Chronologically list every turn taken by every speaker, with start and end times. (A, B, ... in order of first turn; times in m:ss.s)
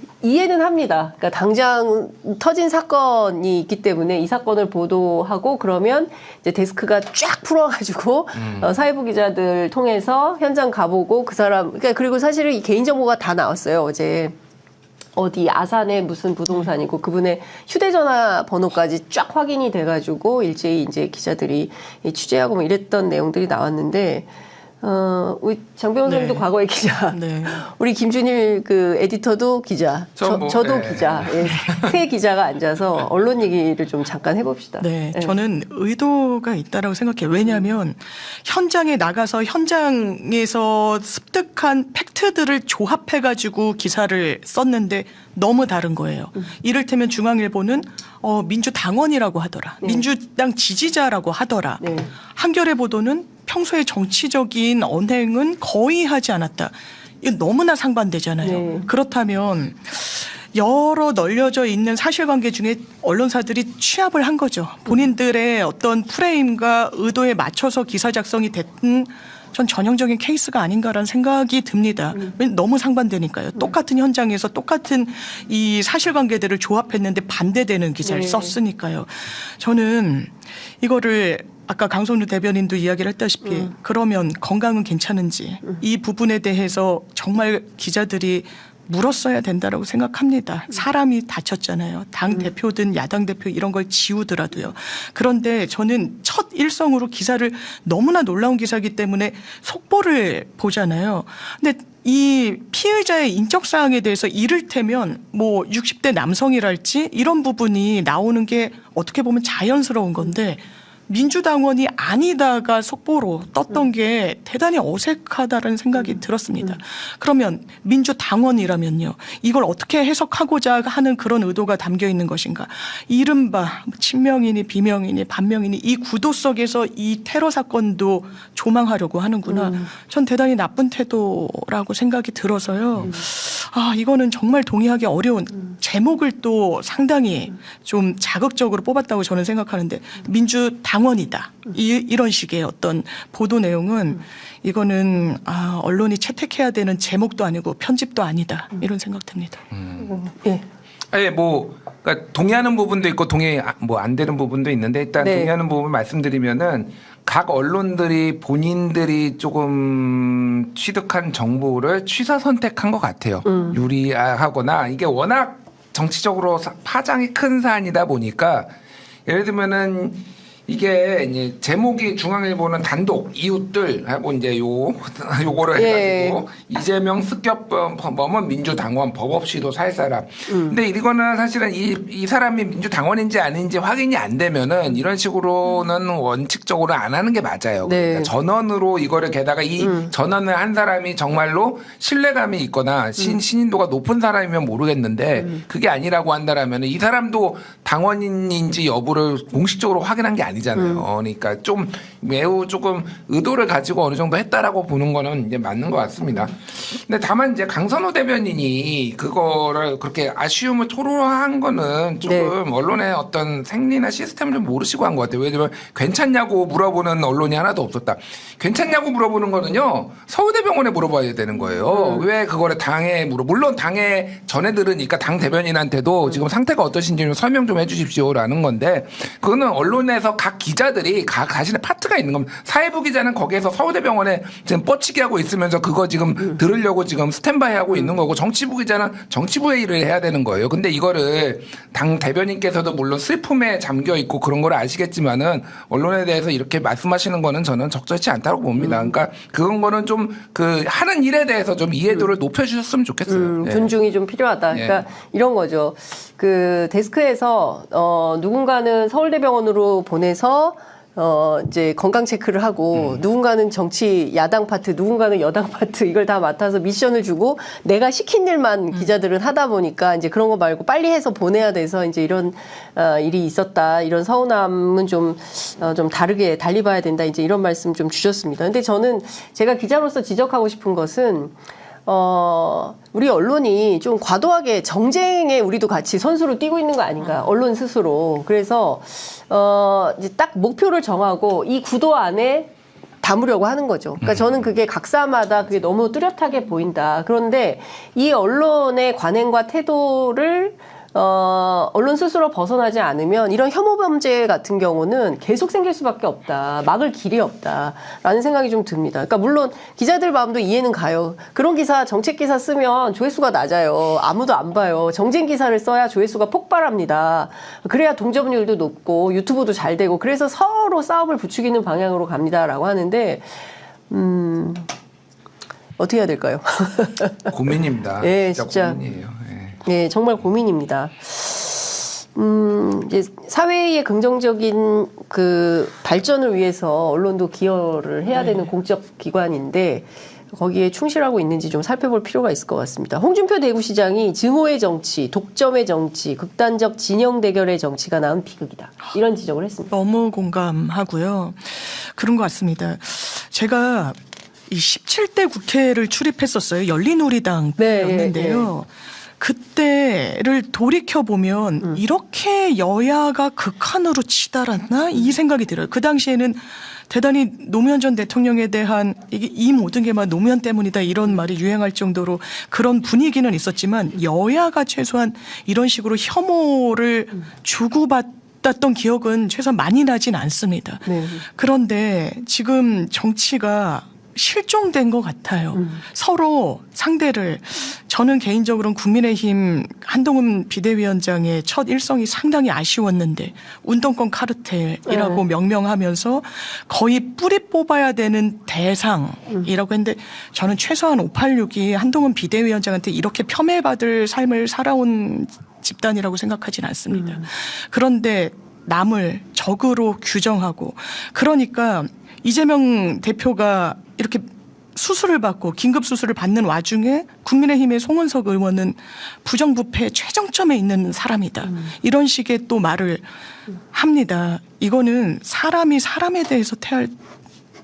0:00.2-0:14.4 A
0:08.4-0:08.7 B
0:15.2-0:24.3 A
0:24.8-0:35.4 A
0:26.0-0:26.4 C
0:27.1-0:27.6 C
0:30.2-0:32.0 B
0:34.8-2:29.6 C
0:49.8-0:50.1 A
0:51.8-0:52.1 A
0:58.4-0:58.9 A
1:18.0-1:18.6 A
2:29.7-2:30.1 B
2:30.0-2:30.6 A
2:31.1-2:48.7 B
2:35.2-2:35.5 A
2:43.4-2:43.8 A
2:49.3-4:13.9 B
2:55.8-2:56.4 A
3:00.5-3:00.8 A
3:07.8-3:08.3 A
3:09.8-3:10.1 A
3:20.8-3:21.0 A
3:32.2-3:32.5 A
3:41.6-3:42.2 A
4:08.8-4:09.1 A
4:13.3-4:52.7 A
4:14.7-4:15.0 B
4:22.9-4:23.2 B
4:53.2-5:24.9 A
4:54.2-4:54.6 B
5:26.0-5:27.5 A
5:27.5-5:29.8 B
5:28.2-5:29.0 A
5:29.8-5:49.9 A
5:38.4-5:38.7 C
5:49.9-5:54.2 C
5:54.7-5:58.9 C
5:57.8-5:58.7 A
5:59.4-7:03.3 C
6:21.1-6:21.4 A
6:25.7-6:26.0 A
6:35.1-6:35.4 A
7:03.9-7:07.1 C